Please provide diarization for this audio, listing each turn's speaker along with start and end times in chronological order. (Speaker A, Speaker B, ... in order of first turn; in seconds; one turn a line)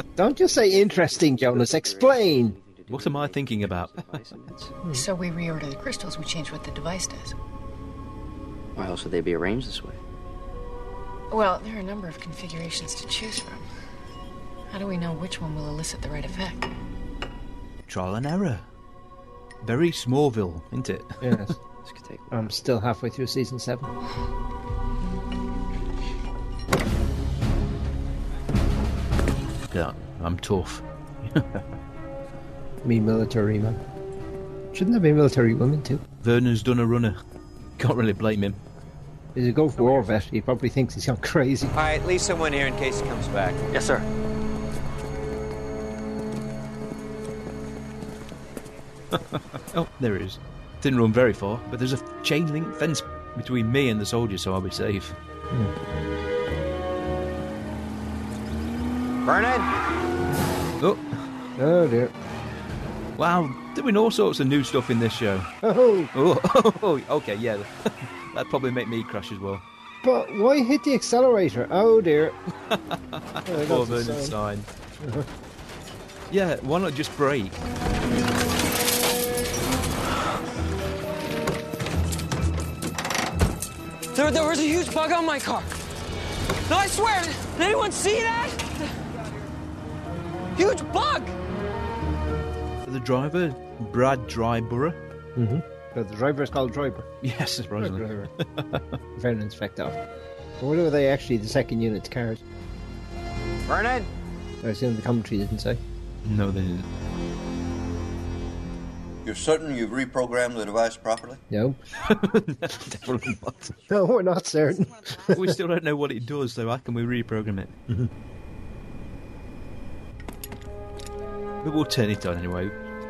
Speaker A: 0.2-2.6
Speaker B: 0.6-4.7
Speaker C: 2.9-4.0
Speaker D: 4.9-7.3
Speaker B: 8.8-10.0
Speaker D: 11.3-13.6
Speaker D: 14.7-16.7
Speaker C: 17.9-18.7
Speaker C: 19.6-21.4
Speaker A: 21.2-21.6
Speaker B: 21.8-22.3
Speaker A: 22.3-23.9
Speaker C: 29.7-31.6
Speaker A: 32.8-33.8
Speaker A: 34.7-36.0
Speaker C: 36.2-37.2
Speaker C: 37.8-38.6
Speaker A: 39.3-41.7
Speaker E: 41.7-43.7
Speaker C: 49.6-55.1
Speaker E: 59.2-59.7
Speaker C: 60.8-61.2
Speaker A: 61.6-62.1
Speaker C: 63.2-65.5
Speaker A: 65.6-66.1
Speaker C: 66.1-69.6
Speaker A: 70.0-72.3
Speaker C: 72.7-74.7
Speaker A: 73.5-74.3
Speaker A: 75.0-75.3
Speaker C: 76.3-77.6
Speaker F: 84.1-85.7
Speaker F: 86.7-88.8
Speaker F: 90.5-91.3
Speaker C: 92.8-95.0
Speaker A: 95.3-97.1
Speaker C: 97.2-98.8
Speaker A: 97.8-98.3
Speaker A: 99.1-100.0
Speaker A: 100.6-102.4
Speaker E: 103.7-104.1
Speaker A: 104.6-105.8
Speaker C: 106.2-106.9
Speaker G: 109.2-111.4
Speaker A: 111.5-111.8
Speaker C: 112.0-113.7
Speaker A: 113.9-115.6
Speaker C: 115.3-117.7
Speaker C: 121.6-122.7